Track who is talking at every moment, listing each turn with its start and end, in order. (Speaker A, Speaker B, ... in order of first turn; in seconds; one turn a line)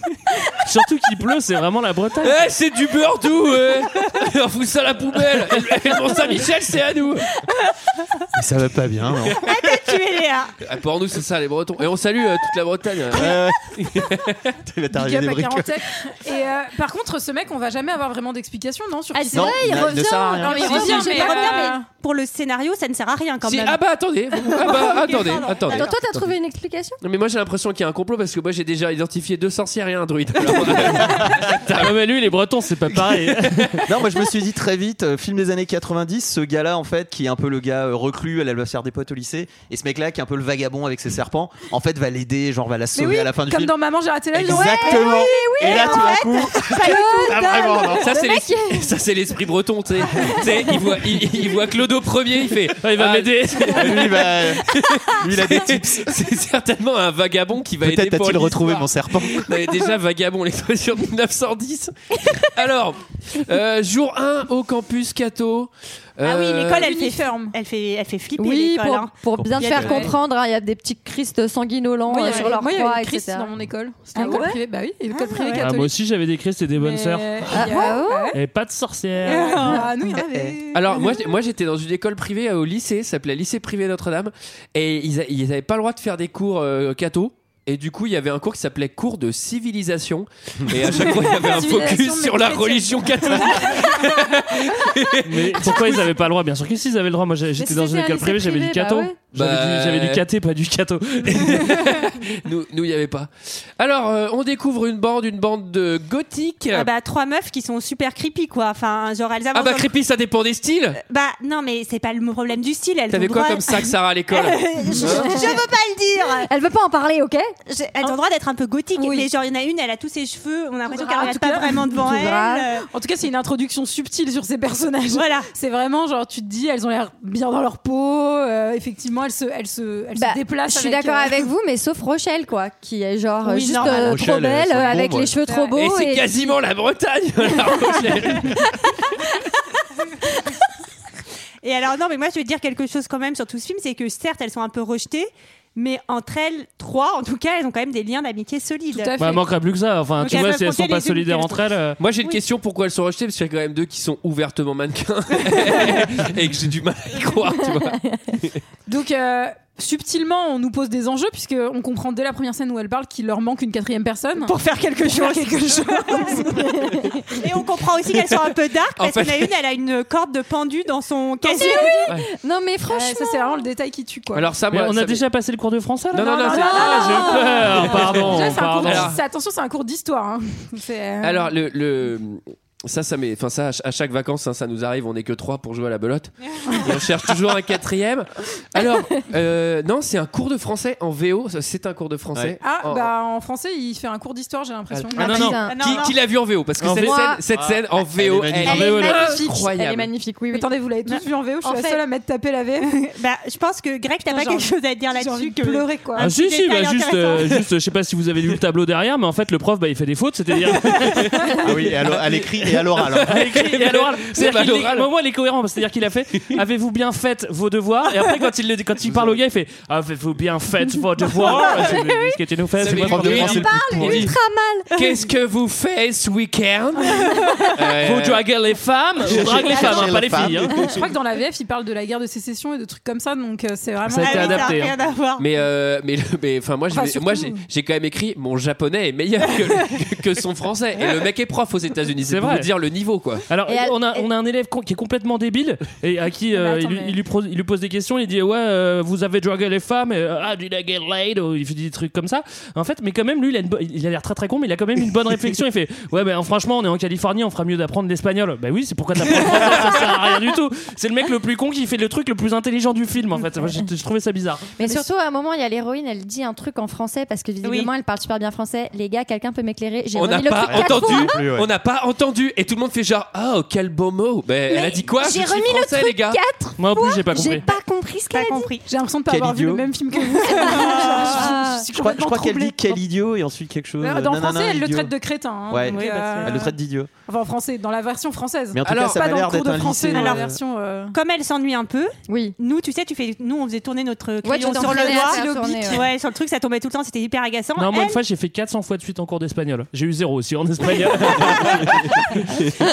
Speaker A: 0.6-2.4
Speaker B: 2.2-7.4
Speaker C: 8.3-9.5
Speaker D: 9.4-10.5
Speaker B: 10.6-14.5
Speaker C: 13.1-15.8
Speaker E: 14.9-21.9
Speaker F: 19.1-21.8
Speaker C: 19.3-20.8
Speaker D: 20.6-23.8
Speaker B: 23.4-26.3
Speaker D: 24.5-26.0
Speaker F: 25.7-27.0
Speaker B: 27.0-31.9
Speaker A: 31.8-34.0
Speaker C: 33.9-43.8
Speaker E: 43.0-46.3
Speaker C: 44.3-48.1
Speaker F: 44.5-48.9
Speaker D: 45.6-47.6
Speaker B: 48.0-66.9
Speaker A: 52.8-54.4
Speaker C: 53.7-56.2
Speaker C: 57.8-59.6
Speaker D: 66.2-70.1
Speaker E: 66.7-67.5
Speaker F: 68.4-73.5
Speaker C: 69.4-70.1
Speaker E: 69.8-70.2
Speaker E: 72.1-76.0
Speaker F: 74.1-75.6
Speaker D: 74.2-74.5
Speaker A: 75.5-77.5
Speaker E: 76.8-78.4
Speaker F: 77.5-78.4
Speaker A: 78.3-79.9
Speaker E: 79.2-81.3
Speaker F: 79.3-80.0
Speaker C: 80.2-80.6
Speaker B: 80.7-95.9
Speaker E: 90.9-94.1
Speaker A: 95.2-102.0
Speaker F: 97.6-99.2
Speaker B: 99.3-100.2
Speaker B: 101.2-106.9
Speaker D: 106.7-109.9
Speaker B: 109.5-111.0
Speaker D: 111.0-116.5
Speaker B: 113.1-115.3
Speaker F: 114.8-117.5
Speaker D: 117.7-122.8
Speaker E: 119.0-119.3
Speaker E: 120.9-122.0
Speaker F: 121.3-122.7
Speaker E: 122.8-131.4
Speaker D: 125.1-125.5
Speaker F: 130.2-136.6
Speaker D: 133.4-134.3
Speaker C: 133.8-135.4
Speaker B: 135.7-138.7
Speaker D: 141.6-149.2
Speaker E: 148.9-149.5
Speaker A: 149.2-152.0
Speaker D: 150.2-151.7
Speaker B: 152.0-158.6
Speaker E: 158.9-166.7
Speaker D: 164.4-166.7
Speaker F: 166.7-167.1
Speaker D: 167.3-172.1
Speaker B: 169.0-169.5
Speaker E: 171.5-172.1
Speaker F: 171.5-173.7
Speaker E: 172.9-174.5
Speaker B: 174.3-175.2
Speaker A: 174.7-179.1
Speaker B: 176.1-179.2
Speaker E: 176.2-181.5
Speaker F: 176.5-177.5
Speaker B: 181.2-193.1
Speaker E: 192.6-195.6
Speaker B: 194.9-200.1
Speaker F: 195.2-196.1
Speaker D: 195.2-196.2
Speaker C: 196.8-198.9
Speaker F: 196.9-197.4
Speaker F: 198.6-200.7
Speaker A: 198.7-199.4
Speaker E: 200.5-203.1
Speaker F: 201.6-202.0
Speaker D: 203.2-207.7
Speaker E: 204.3-206.3
Speaker A: 206.2-211.7
Speaker C: 211.6-213.5
Speaker B: 212.0-215.1
Speaker A: 213.2-223.7
Speaker C: 219.0-219.4
Speaker F: 221.4-222.4
Speaker B: 222.8-224.3
Speaker C: 222.8-224.3
Speaker F: 223.2-224.9
Speaker B: 224.9-228.4
Speaker F: 227.3-227.6
Speaker A: 228.0-230.8
Speaker C: 229.2-231.0
Speaker E: 229.9-230.2
Speaker E: 230.8-234.8
Speaker A: 234.1-234.9
Speaker D: 234.2-235.5
Speaker B: 235.4-243.4
Speaker E: 236.9-237.6
Speaker A: 242.3-242.7
Speaker A: 243.5-264.7
Speaker F: 243.7-244.3
Speaker E: 246.5-247.2
Speaker F: 264.8-271.4
Speaker D: 267.6-267.9
Speaker B: 270.1-276.4
Speaker C: 270.6-271.7
Speaker F: 274.7-278.7
Speaker A: 276.8-277.7
Speaker D: 278.3-278.8
Speaker E: 278.9-283.0
Speaker C: 279.3-279.9
Speaker F: 280.4-281.9
Speaker D: 280.7-281.5
Speaker C: 281.9-285.1
Speaker E: 284.0-286.7
Speaker C: 285.7-287.1
Speaker D: 285.9-286.6
Speaker E: 287.3-291.1
Speaker C: 288.7-290.6
Speaker B: 288.9-289.2
Speaker D: 290.1-290.5
Speaker D: 291.1-298.2
Speaker F: 292.3-292.6
Speaker F: 294.4-296.1
Speaker E: 294.8-296.0
Speaker A: 297.8-302.3
Speaker B: 301.1-302.8
Speaker D: 301.5-301.8